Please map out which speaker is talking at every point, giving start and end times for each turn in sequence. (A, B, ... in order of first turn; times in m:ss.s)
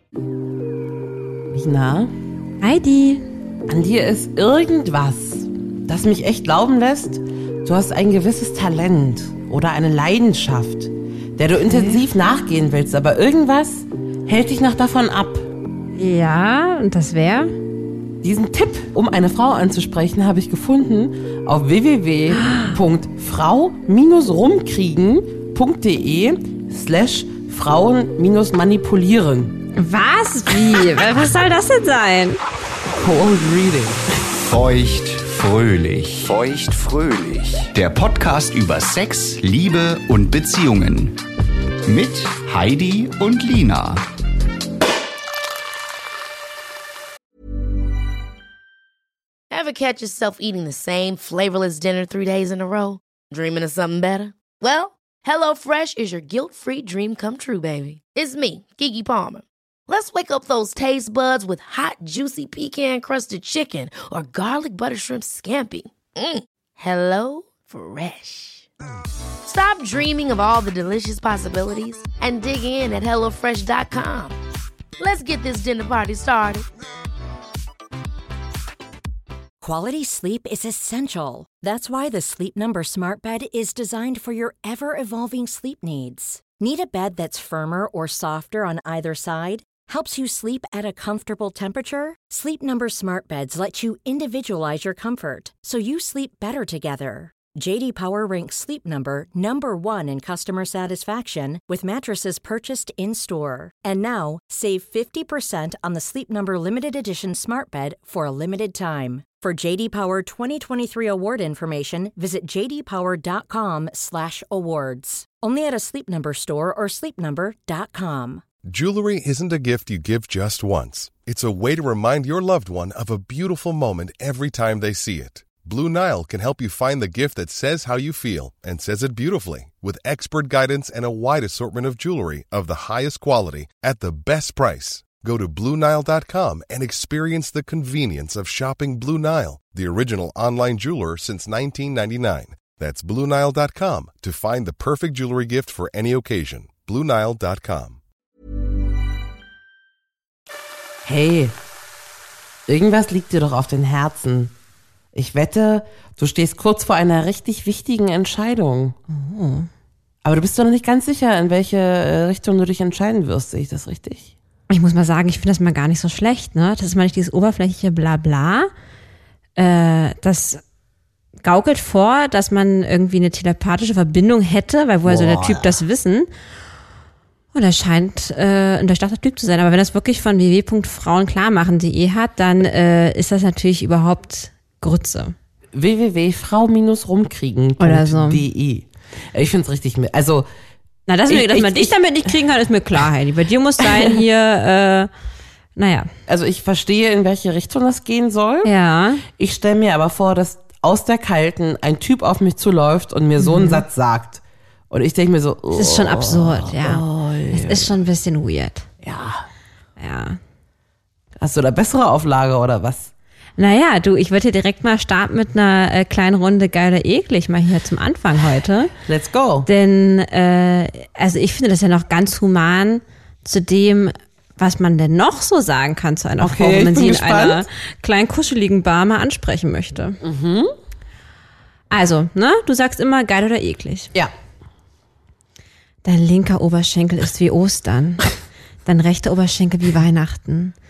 0:01.5-0:02.1 A
0:02.6-0:03.2 B
0:03.7-0:15.5 A
0:11.7-0:12.0 B
0:16.0-0:17.5 B
0:18.2-0:29.6 A
0:22.4-0:22.8 B
0:29.7-0:32.4 B
0:32.9-0:34.1 A
0:34.4-0:41.2 C
0:41.8-0:44.0 C
0:49.5-1:08.7 D
1:09.4-1:14.4 D
1:15.0-1:16.6 D
1:19.6-1:58.4 E
1:58.6-2:28.0 F
2:31.0-2:31.6 A
2:32.7-2:34.5 A
2:35.1-2:39.0 A
2:39.1-2:39.7 B
2:40.2-2:44.3 A
2:44.7-2:48.7 B
2:49.6-2:50.6 B
2:51.4-2:56.3 B
2:55.0-2:55.7 A
2:57.5-3:05.3 B
3:05.7-3:10.5 A
3:07.8-3:08.4 B
3:11.1-3:15.1 B
3:11.3-3:12.0 A
3:13.8-3:14.1 A
3:15.8-3:16.1 B
3:16.3-3:18.7 A
3:18.6-3:19.2 B
3:19.3-3:27.9 A
3:23.4-3:23.8 B
3:25.7-3:28.9 B
3:29.0-3:29.4 A
3:30.0-3:30.4 B
3:31.4-3:33.1 A
3:33.6-3:38.9 B
3:39.0-3:39.7 A
3:39.6-3:50.2 B
3:46.4-3:47.6 A
3:50.2-3:50.7 A
3:51.9-3:54.1 B
3:56.0-3:58.3 B
3:58.8-4:00.7 B